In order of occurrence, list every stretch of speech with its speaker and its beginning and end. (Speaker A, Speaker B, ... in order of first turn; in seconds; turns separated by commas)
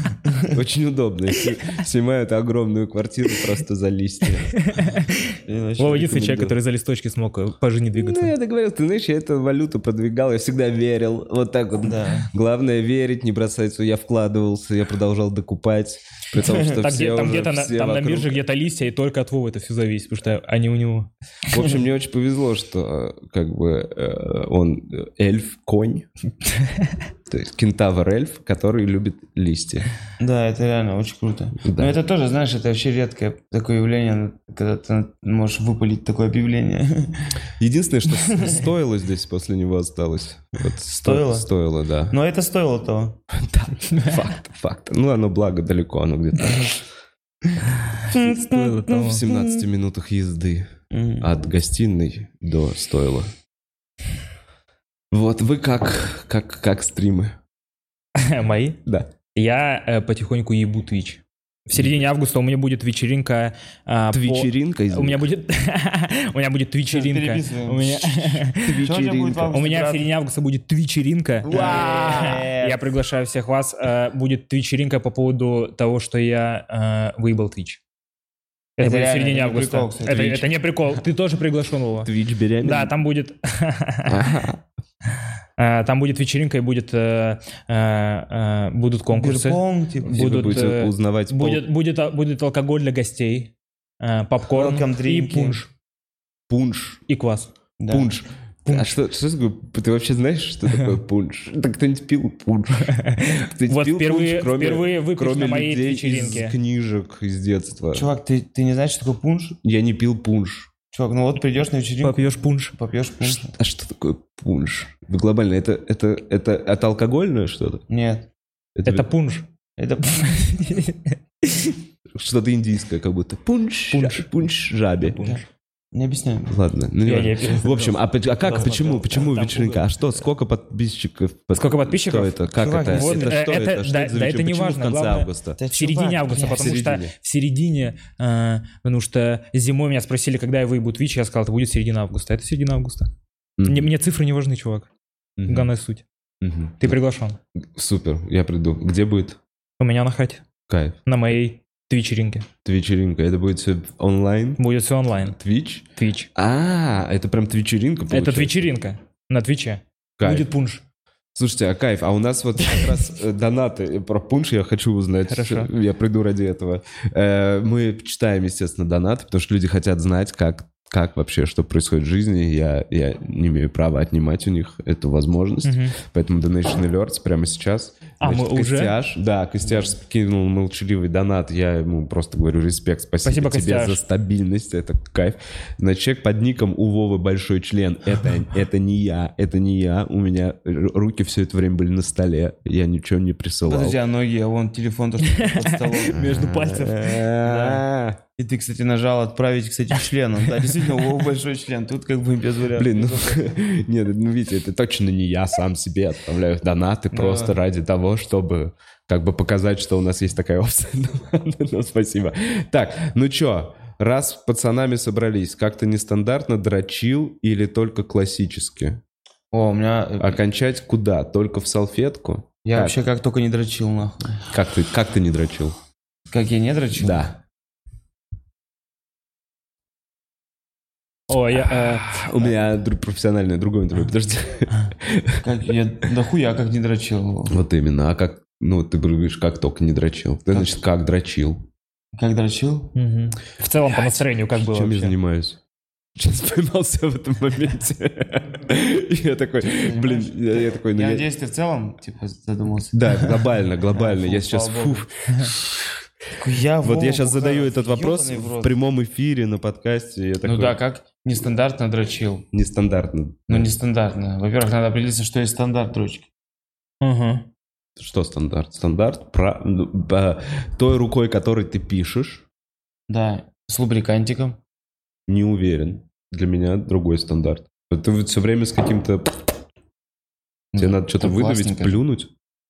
Speaker A: 0.5-4.5, Speaker B: 4.5-8.3, Speaker C: 5.4-6.6, Speaker A: 7.9-18.4, Speaker C: 11.8-12.3, Speaker B: 16.3-21.1, Speaker A: 21.5-26.1, Speaker A: 27.3-29.9, Speaker C: 30.2-37.3, Speaker A: 31.6-32.0, Speaker A: 37.6-42.1, Speaker C: 41.0-41.5, Speaker C: 42.1-43.2, Speaker A: 43.3-46.9, Speaker B: 43.9-44.2, Speaker A: 48.1-53.3, Speaker B: 48.1-49.3, Speaker C: 48.1-49.6, Speaker C: 50.9-51.3, Speaker A: 55.1-57.4, Speaker B: 58.2-58.8, Speaker A: 58.9-59.1, Speaker B: 59.3-68.9, Speaker A: 61.8-62.0, Speaker A: 64.1-65.3, Speaker C: 66.9-70.1, Speaker A: 68.6-69.6, Speaker B: 69.5-77.8, Speaker A: 71.4-72.4, Speaker C: 71.5-72.8, Speaker B: 78.8-84.3, Speaker C: 78.8-80.5, Speaker A: 80.1-80.4, Speaker A: 82.0-83.0, Speaker A: 84.1-84.6, Speaker B: 85.6-95.7, Speaker C: 89.1-90.4, Speaker A: 90.1-91.7, Speaker C: 94.5-95.6, Speaker A: 96.5-97.0, Speaker B: 97.1-97.5, Speaker C: 97.8-98.1, Speaker A: 97.9-108.1, Speaker B: 98.7-99.0, Speaker B: 102.9-106.6, Speaker C: 107.9-109.6, Speaker A: 109.6-110.7, Speaker C: 110.9-113.5, Speaker B: 112.0-112.8, Speaker A: 113.2-117.8, Speaker C: 117.9-118.3, Speaker A: 118.8-119.1, Speaker B: 118.9-119.5, Speaker C: 119.8-120.8, Speaker B: 120.3-121.8, Speaker A: 122.1-125.4, Speaker B: 123.9-124.3, Speaker B: 125.0-125.4, Speaker C: 125.9-126.5, Speaker A: 126.5-135.6, Speaker B: 127.1-129.9, Speaker B: 131.5-143.1, Speaker C: 132.6-133.4, Speaker C: 135.6-136.7, Speaker A: 136.4-137.1, Speaker A: 143.6-143.9, Speaker B: 143.7-144.9, Speaker A: 145.4-145.7, Speaker B: 145.5-146.0, Speaker A: 146.4-147.0, Speaker B: 146.8-147.4, Speaker A: 147.8-149.4, Speaker B: 149.8-150.4, Speaker A: 150.7-151.0, Speaker B: 151.1-152.5, Speaker A: 152.7-154.6, Speaker B: 154.6-155.4, Speaker A: 155.2-158.7, Speaker B: 156.0-156.3, Speaker B: 158.1-160.8, Speaker A: 160.2-160.5, Speaker A: 161.3-194.0, Speaker B: 165.3-165.7, Speaker B: 175.6-176.0, Speaker B: 178.2-178.9, Speaker C: 179.6-179.9, Speaker B: 183.2-184.0, Speaker C: 193.6-197.9, Speaker B: 195.2-197.2, Speaker A: 196.1-198.2, Speaker C: 198.4-203.5, Speaker A: 202.8-219.0, Speaker C: 207.1-207.6, Speaker C: 219.5-220.4, Speaker A: 220.2-223.0, Speaker C: 222.7-224.4, Speaker A: 224.5-225.8, Speaker C: 226.3-227.3, Speaker A: 227.0-227.4, Speaker B: 231.3-232.3, Speaker A: 231.7-235.5, Speaker C: 235.4-237.6, Speaker A: 237.5-241.7, Speaker C: 240.5-240.8, Speaker C: 242.1-242.9, Speaker B: 242.9-245.1, Speaker A: 244.6-245.6, Speaker A: 246.2-251.3, Speaker C: 249.6-253.3, Speaker A: 252.9-255.7, Speaker C: 253.9-255.1, Speaker C: 256.4-258.7, Speaker A: 256.8-260.8, Speaker C: 260.4-262.5, Speaker A: 262.5-263.7, Speaker C: 263.5-266.3, Speaker B: 267.0-267.5, Speaker A: 268.0-272.5, Speaker C: 273.1-274.6, Speaker A: 275.3-279.5, Speaker C: 280.7-282.0, Speaker A: 280.8-282.3